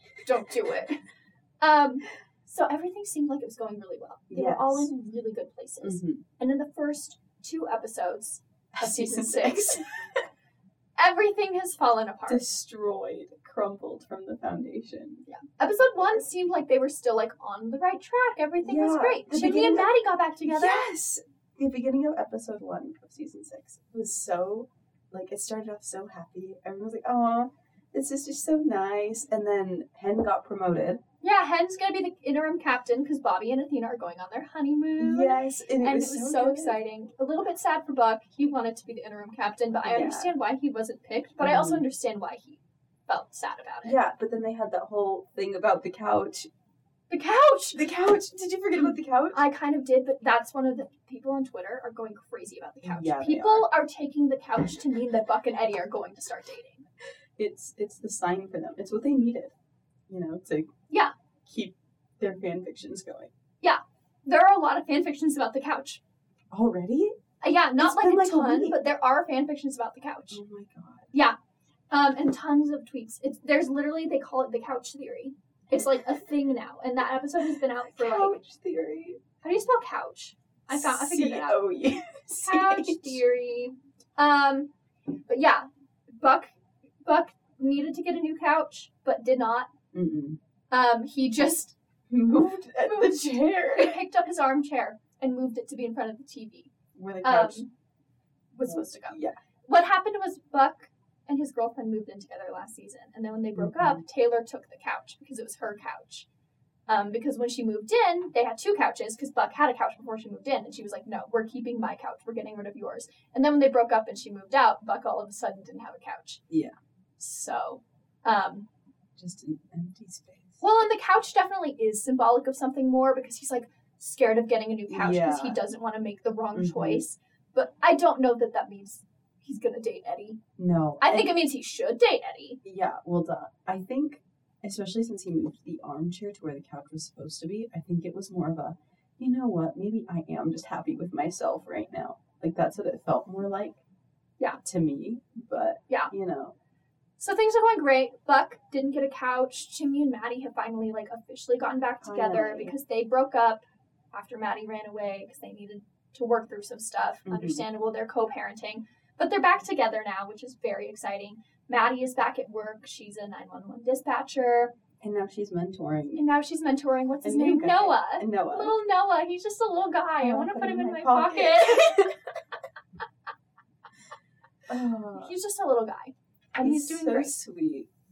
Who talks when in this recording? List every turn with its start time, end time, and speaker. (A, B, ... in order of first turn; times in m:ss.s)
0:00.2-0:01.0 A
0:01.6-0:09.9 A
0:04.3-0:04.9 B
0:05.8-0:06.2 B
0:08.8-0:10.3 B
0:11.0-0:12.4 A
0:12.3-0:15.2 B
0:15.3-0:20.9 A
0:18.6-0:19.9 B
0:20.4-0:31.0 B
0:31.2-0:44.0 A
0:35.0-0:36.8 B
0:39.8-0:40.3 B
0:41.4-0:41.8 B
0:43.8-0:46.5 B
0:47.1-0:47.8 A
0:47.7-0:49.4 B
0:48.8-0:56.8 A
0:52.8-0:53.7 B
0:57.4-0:59.5 B
1:00.1-1:00.7 B
1:01.5-1:03.3 B
1:03.6-1:06.0 A
1:06.5-1:07.2 B
1:07.4-1:10.4 A
1:07.8-1:08.8 B
1:10.3-1:11.1 B
1:11.9-1:18.4 A
1:18.0-1:19.2 B
1:19.4-1:21.6 A
1:20.7-1:23.2 B
1:22.4-1:24.7 A
1:25.3-1:26.5 A
1:27.0-1:29.7 A
1:29.9-1:30.4 B
1:30.7-1:31.8 A
1:32.1-1:34.0 B
1:32.8-1:36.7 A
1:37.0-1:37.6 B
1:37.2-1:37.7 A
1:38.5-1:46.3 A
1:38.7-1:39.4 B
1:43.6-1:44.0 B
1:46.9-1:56.4 A
1:57.2-1:58.7 A
1:59.2-2:00.6 B
2:00.6-2:10.4 A
2:04.9-2:05.6 B
2:06.5-2:07.0 B
2:10.6-2:11.4 B
2:11.0-2:12.6 A
2:12.6-2:23.8 B
2:24.6-2:26.6 B
2:27.2-2:44.7 A
2:32.0-2:32.7 B
2:37.3-2:37.6 B
2:45.0-2:46.2 B
2:46.2-2:52.0 A
2:47.2-2:48.8 B
2:50.2-2:52.2 B
2:54.7-2:55.4 B
2:55.2-2:57.4 A
2:56.6-2:57.9 B